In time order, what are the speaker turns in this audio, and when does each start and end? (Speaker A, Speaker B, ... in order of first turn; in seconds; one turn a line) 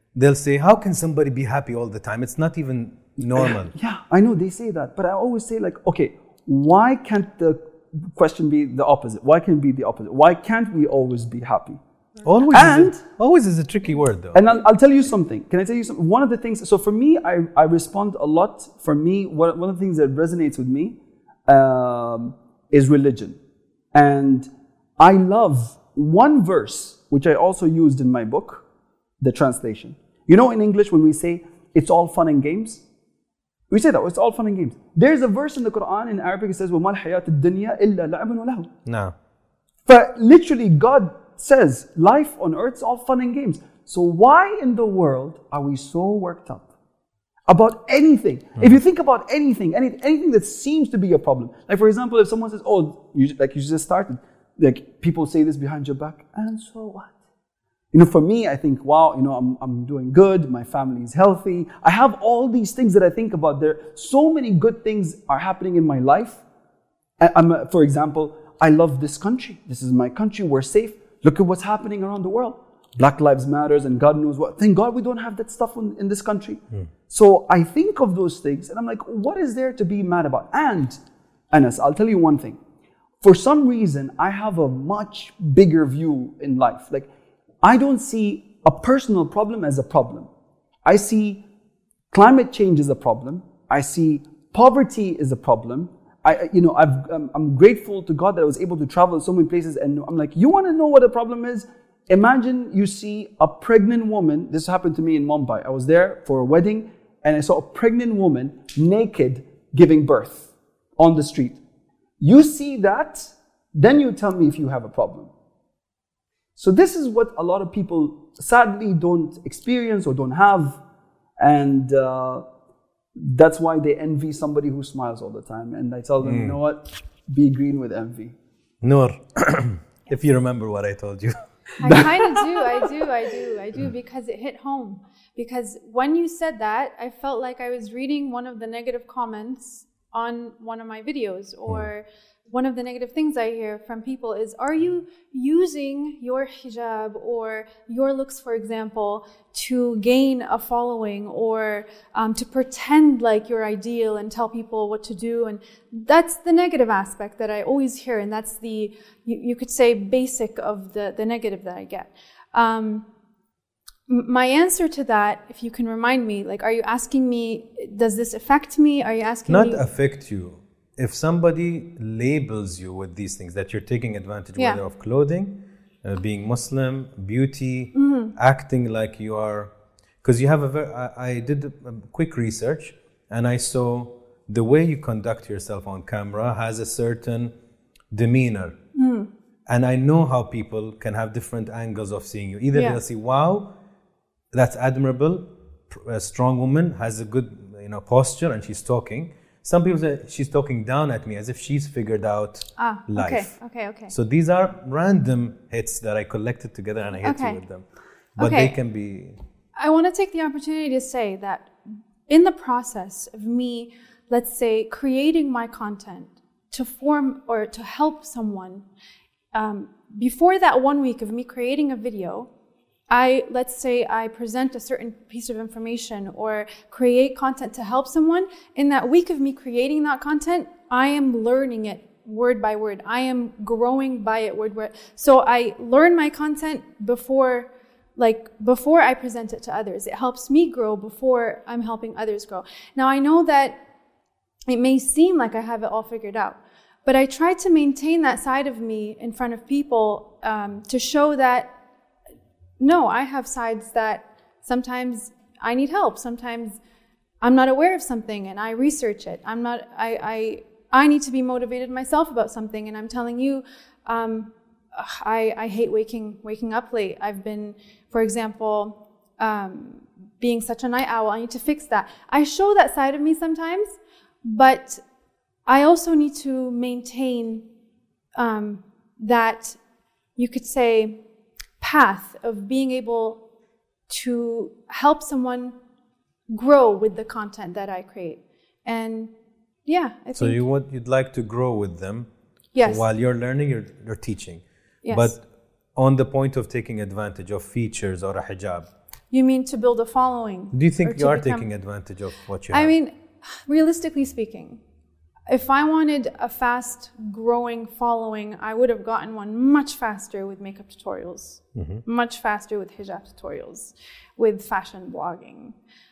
Speaker A: 0.1-3.8
Speaker B: 3.3-11.8
Speaker A: 12.2-14.4
Speaker B: 12.5-13.0
Speaker B: 14.3-23.4
Speaker B: 23.9-28.6
Speaker B: 29.2-32.8
Speaker B: 33.7-38.7
Speaker A: 38.9-39.1
Speaker B: 39.9-46.7
Speaker B: 47.5-57.1
Speaker B: 57.9-66.4
Speaker B: 67.2-81.0
Speaker B: 81.5-82.6
Speaker B: 83.2-87.1
Speaker B: 87.6-90.3
Speaker B: 90.8-91.5
Speaker B: 92.1-111.6
Speaker B: 112.2-115.3
Speaker B: 116.6-120.8
Speaker B: 121.4-122.4
Speaker B: 123.2-128.3
Speaker A: 126.2-126.6
Speaker A: 128.8-131.4
Speaker C: 131.8-163.1
Speaker C: 164.1-169.8
Speaker A: 169.5-179.7
Speaker C: 177.9-178.3
Speaker A: 180.2-187.5
Speaker A: 188.1-188.8
Speaker C: 188.9-189.3
Speaker A: 189.7-193.8
Speaker C: 192.7-193.0
Speaker A: 194.5-207.8
Speaker C: 202.8-204.1
Speaker C: 207.2-207.6
Speaker A: 208.4-209.4
Speaker C: 208.4-208.8
Speaker C: 209.8-211.8
Speaker C: 212.3-218.8
Speaker C: 219.5-222.5
Speaker C: 223.1-243.8
Speaker C: 244.7-251.7
Speaker C: 252.8-256.8
Speaker C: 257.4-275.0
Speaker C: 275.7-277.7
Speaker C: 278.4-279.8
Speaker C: 280.4-281.2
Speaker C: 281.8-283.4
Speaker C: 284.1-285.8
Speaker C: 286.5-289.3
Speaker C: 289.9-290.6
Speaker A: 290.4-292.3
Speaker C: 292.7-293.1
Speaker A: 292.8-298.9
Speaker C: 295.0-295.4
Speaker C: 299.3-301.7
Speaker A: 300.7-302.9
Speaker C: 302.7-304.8
Speaker C: 305.5-315.8
Speaker A: 311.8-312.0